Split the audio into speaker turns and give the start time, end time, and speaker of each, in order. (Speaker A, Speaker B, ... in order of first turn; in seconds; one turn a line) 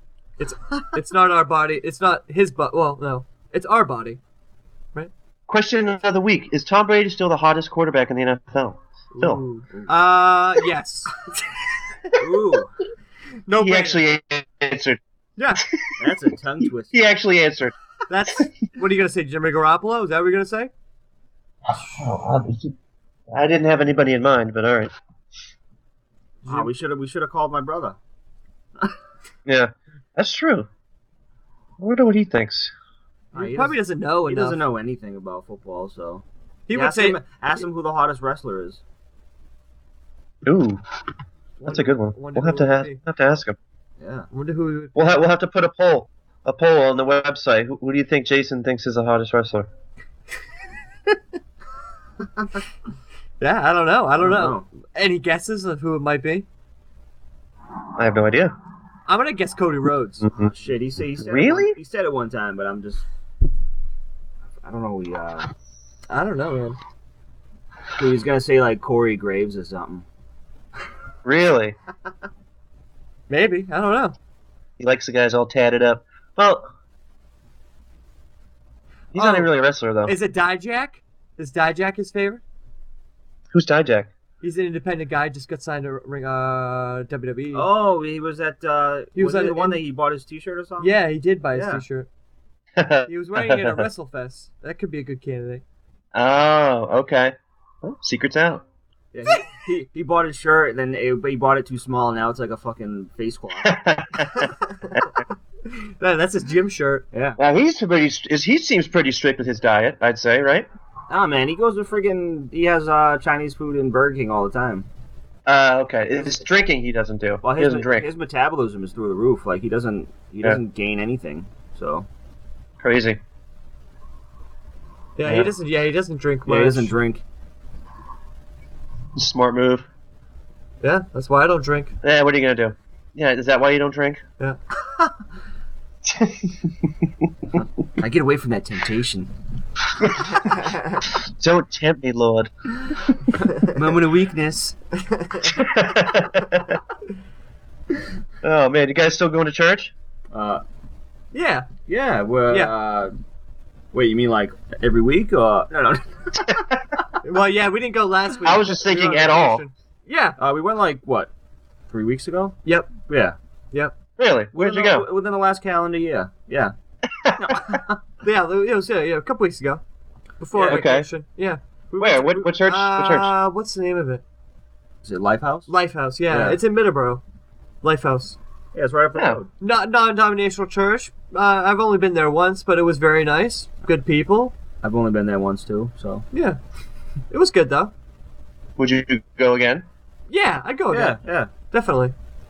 Speaker A: 0.4-4.2
Speaker B: 5.5-9.4
Speaker A: 9.1-11.3
Speaker C: 12.2-12.8
Speaker A: 13.5-14.0
Speaker B: 13.6-15.0
Speaker A: 15.4-15.6
Speaker B: 15.6-15.9
Speaker C: 16.0-17.0
Speaker B: 16.9-17.8
Speaker A: 18.1-20.7
Speaker B: 21.7-22.7
Speaker B: 23.3-24.9
Speaker A: 26.4-26.7
Speaker C: 26.5-28.0
Speaker B: 29.5-30.7
Speaker B: 31.8-32.7
Speaker A: 33.3-34.6
Speaker C: 33.3-38.8
Speaker A: 36.7-37.2
Speaker B: 40.5-40.8
Speaker A: 41.6-43.0
Speaker B: 41.6-43.6
Speaker C: 44.0-44.3
Speaker A: 44.3-45.0
Speaker B: 45.0-49.7
Speaker A: 53.4-56.5
Speaker C: 54.2-54.7
Speaker B: 58.0-58.5
Speaker A: 59.1-60.3
Speaker B: 60.2-60.5
Speaker C: 60.4-63.1
Speaker B: 61.2-61.8
Speaker C: 64.6-65.5
Speaker A: 66.1-66.8
Speaker C: 68.0-70.1
Speaker B: 71.2-71.8
Speaker A: 73.3-74.2
Speaker B: 74.8-76.7
Speaker B: 79.1-80.2
Speaker A: 79.2-79.5
Speaker A: 80.1-82.4
Speaker B: 83.5-84.1
Speaker A: 84.4-87.7
Speaker C: 87.5-91.0
Speaker A: 89.2-89.8
Speaker A: 90.8-92.1
Speaker C: 91.5-91.8
Speaker B: 92.8-93.9
Speaker A: 93.1-95.6
Speaker B: 96.1-98.6
Speaker C: 99.1-103.8
Speaker B: 103.6-105.0
Speaker A: 105.7-107.1
Speaker C: 107.1-107.4
Speaker B: 107.4-110.7
Speaker C: 111.1-114.9
Speaker B: 115.5-118.1
Speaker C: 117.4-122.1
Speaker B: 122.8-123.2
Speaker A: 125.2-126.9
Speaker B: 125.2-125.5
Speaker C: 126.5-127.2
Speaker B: 129.2-129.9
Speaker A: 130.8-132.0
Speaker B: 132.0-134.2
Speaker B: 136.1-137.1
Speaker C: 138.0-139.3
Speaker B: 141.2-142.5
Speaker C: 143.6-144.8
Speaker A: 145.1-145.5
Speaker B: 145.4-146.8
Speaker B: 148.4-149.9
Speaker C: 150.3-150.6
Speaker A: 151.3-151.7
Speaker C: 151.9-153.2
Speaker C: 153.9-156.6
Speaker A: 157.2-160.4
Speaker B: 158.4-159.7
Speaker C: 160.4-161.3
Speaker C: 161.9-163.4
Speaker A: 162.6-162.9
Speaker B: 164.2-165.1
Speaker C: 164.5-166.7
Speaker B: 167.1-167.6
Speaker C: 167.4-168.0
Speaker A: 168.2-169.8
Speaker A: 170.4-174.2
Speaker C: 170.5-170.8
Speaker B: 170.7-171.1
Speaker B: 172.0-173.3
Speaker C: 175.0-175.7
Speaker A: 175.7-177.2
Speaker C: 176.3-176.6
Speaker A: 177.8-178.4
Speaker C: 178.7-179.5
Speaker A: 179.6-184.6
Speaker C: 184.8-186.2
Speaker A: 186.3-186.6
Speaker A: 187.3-187.9
Speaker B: 188.8-189.9
Speaker A: 190.3-191.2
Speaker C: 190.9-191.5
Speaker A: 191.7-192.1